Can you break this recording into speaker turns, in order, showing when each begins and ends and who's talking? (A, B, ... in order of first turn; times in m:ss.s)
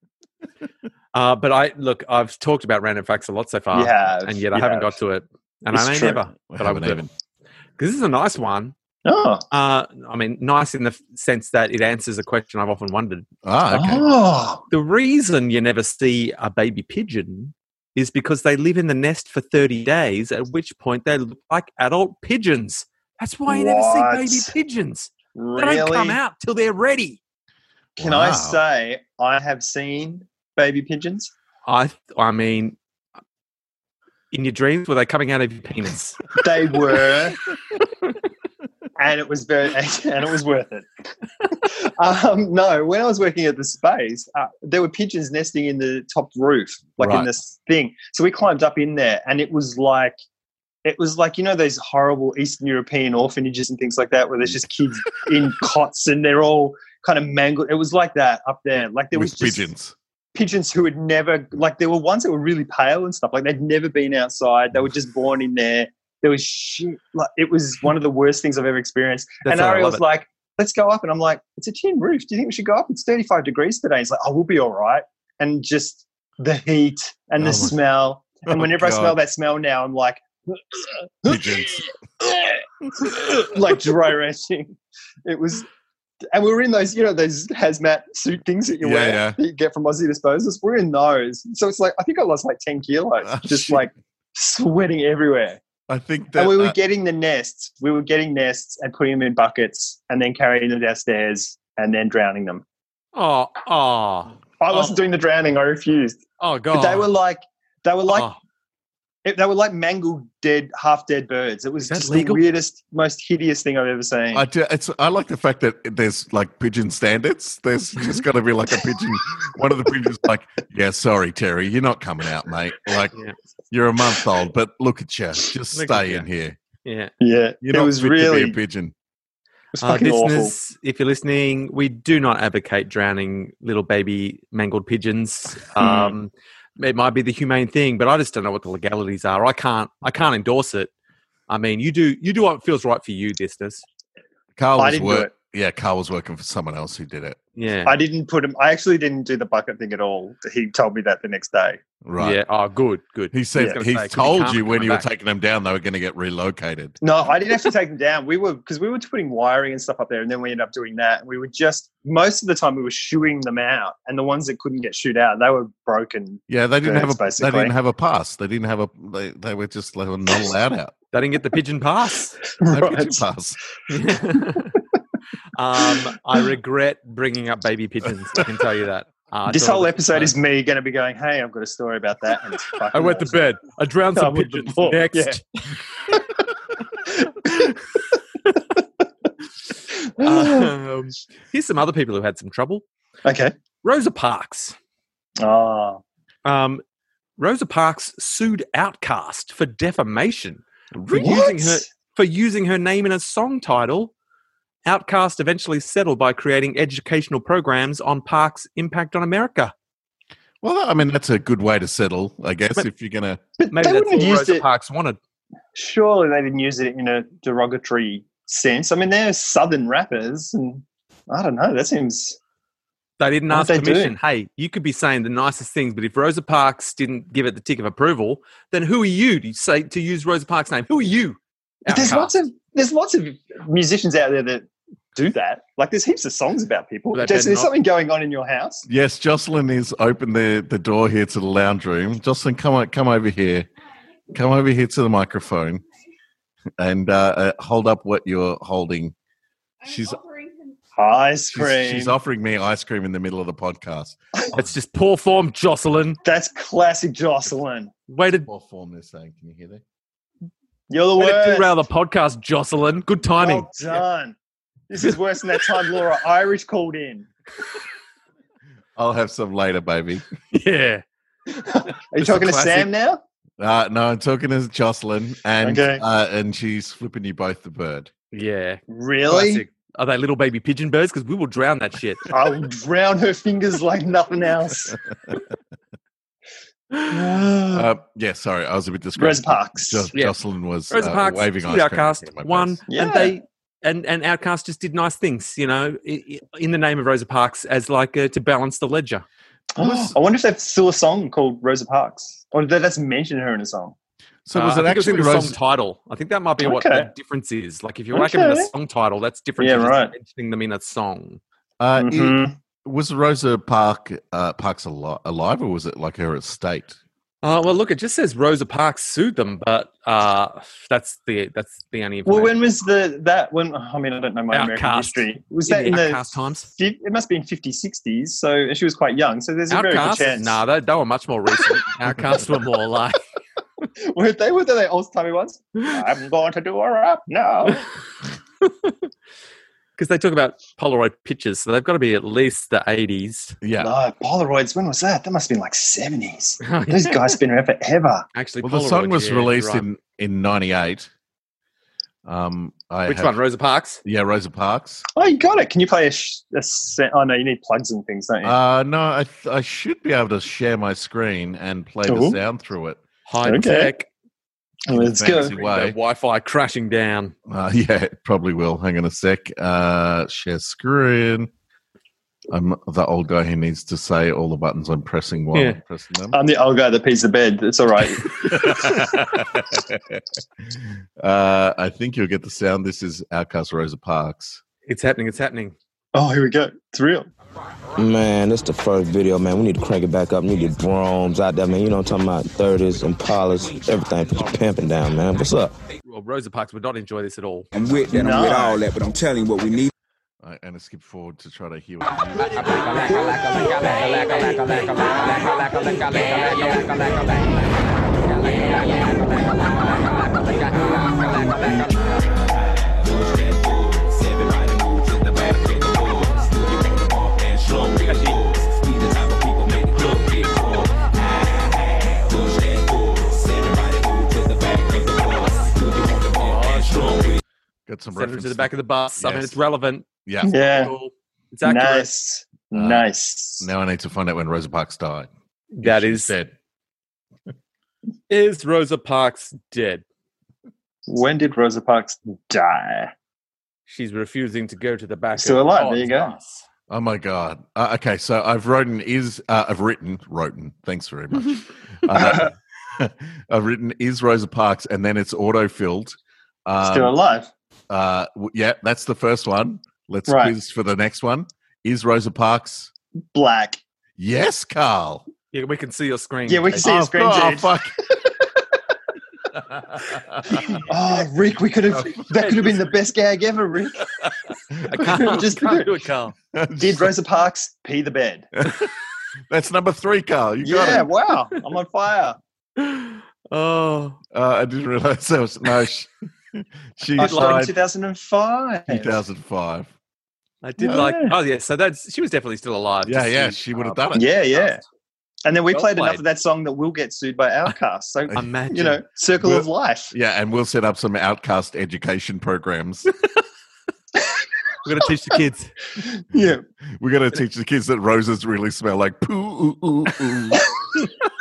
0:01.1-0:07.1 A
0:03.7-0:04.9 B
0:05.7-0:06.2 B
0:06.5-0:07.1 C
0:07.8-0:08.7 A
0:09.0-0:09.4 B
0:09.5-0:13.2 A
0:13.4-0:14.0 C
0:13.7-0:14.6 B
0:14.7-0:27.2 A
0:23.5-0:24.5 B
0:25.3-0:26.2 B
0:28.0-0:28.6 C
0:28.0-0:31.3 B
0:31.6-0:32.8 A
0:34.3-0:36.4 A
0:36.4-0:37.4 B
0:39.0-0:40.9 B
0:41.4-0:50.2 B
0:47.0-0:47.3 C
0:50.8-0:59.7 B
0:59.1-0:59.9 C
1:00.3-1:25.6 B
1:09.4-1:10.0 A
1:17.4-1:17.7 C
1:18.5-1:19.2 C
1:21.2-1:21.9 C
1:26.3-1:35.6 B
1:28.8-1:29.4 C
1:33.3-1:33.8 C
1:35.9-1:36.8 C
1:36.3-1:42.6 B
1:43.1-1:44.9 A
1:44.6-1:48.3 B
1:46.4-1:47.1 A
1:48.1-1:48.4 A
1:49.2-1:54.4 B
1:51.8-1:52.4 A
1:54.3-2:03.2 C
2:03.7-2:06.6 C
2:05.7-2:06.2 A
2:06.8-2:07.1 A
2:07.2-2:08.6 B
2:07.6-2:08.9 C
2:09.7-2:10.5 B
2:09.8-2:20.9 A
2:15.8-2:16.2 B
2:21.5-2:23.8 A
2:24.6-2:27.4 C
2:24.8-2:25.3 B
2:27.6-2:27.9 A
2:27.8-2:31.8 B
2:32.0-2:32.4 C
2:32.2-2:35.0 A
2:33.3-2:37.0 C
2:37.0-2:47.7 B
2:46.5-2:50.9 C
2:51.1-2:52.4 A
2:52.6-2:53.2 B
2:52.7-2:53.6 C
2:53.9-2:54.7 A
2:55.6-3:00.3 A
2:55.8-2:56.4 B
2:59.5-3:03.4 B
3:02.9-3:05.4 A
3:04.1-3:05.4 B
3:07.0-3:07.8 B
3:09.9-3:10.7 B
3:10.2-3:12.8 A
3:13.2-3:13.5 B
3:13.8-3:14.7 A
3:15.4-3:16.0 B
3:16.4-3:16.8 A
3:17.4-3:24.1 A
3:20.9-3:21.4 C
3:21.1-3:21.8 B
3:24.8-3:29.7 A
3:30.6-3:33.4 C
3:33.6-3:34.6 B
3:33.7-3:35.2 A
3:35.7-3:42.4 B
3:43.2-3:52.3 A
3:43.5-3:44.2 B
3:51.9-3:58.8 B
3:57.1-3:57.7 A
3:58.8-4:03.7 C
4:04.3-4:05.8 C
4:06.8-4:09.1 C
4:09.8-4:10.2 C
4:10.9-4:12.2 B
4:11.5-4:14.2 C
4:14.5-4:16.2 A
4:16.2-4:17.9 B
4:18.1-4:18.5 A
4:18.4-4:19.8 C
4:20.9-4:21.7 B
4:21.2-4:23.8 A
4:23.4-4:24.4 B
4:24.9-4:27.3 B
4:29.0-4:30.2 C
4:30.5-4:31.0 A
4:31.6-4:33.2 B
4:32.2-4:32.9 A
4:33.6-4:38.1 C
4:35.6-4:36.0 B
4:38.3-4:42.3 A
4:38.9-4:39.6 B
4:42.3-4:45.0 B
4:47.1-4:47.9 B
4:47.7-4:52.8 C
4:49.2-4:50.1 B
4:50.9-4:59.2 A
4:52.9-4:53.4 B
4:59.8-5:03.9 B
4:59.8-5:00.1 C
5:04.4-5:05.6 C
5:04.5-5:11.4 A
5:06.6-5:07.1 B
5:08.1-5:08.7 B
5:09.6-5:10.1 B
5:11.8-5:17.0 C
5:12.0-5:12.5 B
5:17.4-5:22.6 A
5:22.2-5:30.6 B
5:24.5-5:26.7 A
5:29.7-5:33.2 A
5:34.0-5:37.8 B
5:38.6-5:38.9 A
5:40.0-5:43.6 A
5:43.6-5:43.9 C
5:43.8-5:48.2 B
5:46.6-5:47.4 A
5:48.3-5:49.8 A
5:48.6-5:51.1 C
5:52.2-5:53.4 C
5:53.1-5:54.0 A
5:54.0-5:55.0 C
5:55.1-5:58.5 B
5:58.4-6:03.0 C
6:02.1-6:02.4 B
6:03.3-6:04.1 A
6:03.4-6:03.9 B
6:04.9-6:05.5 B
6:04.9-6:06.0 C
6:05.2-6:07.3 A
6:07.5-6:11.5 C
6:12.5-6:16.4 C
6:15.5-6:15.8 A
6:16.3-6:19.1 B
6:18.3-6:20.2 C
6:20.8-6:24.6 C
6:24.8-6:25.7 A
6:26.1-6:27.3 B
6:28.0-6:35.7 D
6:36.0-6:37.7 A
6:37.7-6:39.9 E
6:38.1-6:38.8 B
6:40.4-6:43.3 C
6:44.0-6:45.9 A
6:46.5-6:46.8 A
6:51.3-6:51.9 E
6:52.9-7:00.9 E
6:58.0-6:58.4 A
7:02.2-7:07.4 E
7:07.9-7:09.6 C
7:08.1-7:12.1 A
7:10.2-7:10.5 C
7:10.4-7:10.9 B
7:11.6-7:13.6 B
7:12.7-7:13.0 C
7:13.6-7:15.3 C
7:15.7-7:16.3 A
7:15.8-7:16.5 C
7:18.3-7:20.0 A
7:21.1-7:23.1 B
7:23.9-7:26.6 A
7:25.4-7:26.3 B
7:26.9-7:37.1 C
7:32.1-7:32.5 B
7:36.8-7:37.5 B
7:37.9-7:42.9 C
7:40.3-7:40.5 B
7:43.3-7:43.8 B
7:44.2-7:45.2 C
7:45.5-7:46.9 A
7:46.5-7:48.6 B
7:46.8-7:47.9 C
7:49.8-7:50.8 C
7:50.5-7:50.8 A
7:50.8-7:54.1 B
7:52.1-7:52.9 A
7:54.9-7:56.3 A
7:54.9-7:55.9 B
7:56.5-7:57.1 C
7:56.8-7:58.5 B
7:58.6-7:58.9 C
7:59.5-8:01.1 C
8:00.6-8:02.4 B
8:02.8-8:04.2 A
8:04.3-8:07.7 C
8:07.2-8:07.7 A
8:07.2-8:09.2 B
8:08.9-8:09.9 C
8:10.6-8:14.7 A
8:10.8-8:11.4 B
8:13.0-8:14.3 C
8:14.1-8:14.8 B
8:15.4-8:20.1 B
8:15.7-8:16.2 A
8:18.3-8:19.0 A
8:19.4-8:23.1 C
8:24.8-8:25.8 A
8:26.0-8:26.6 B
8:27.0-8:30.7 C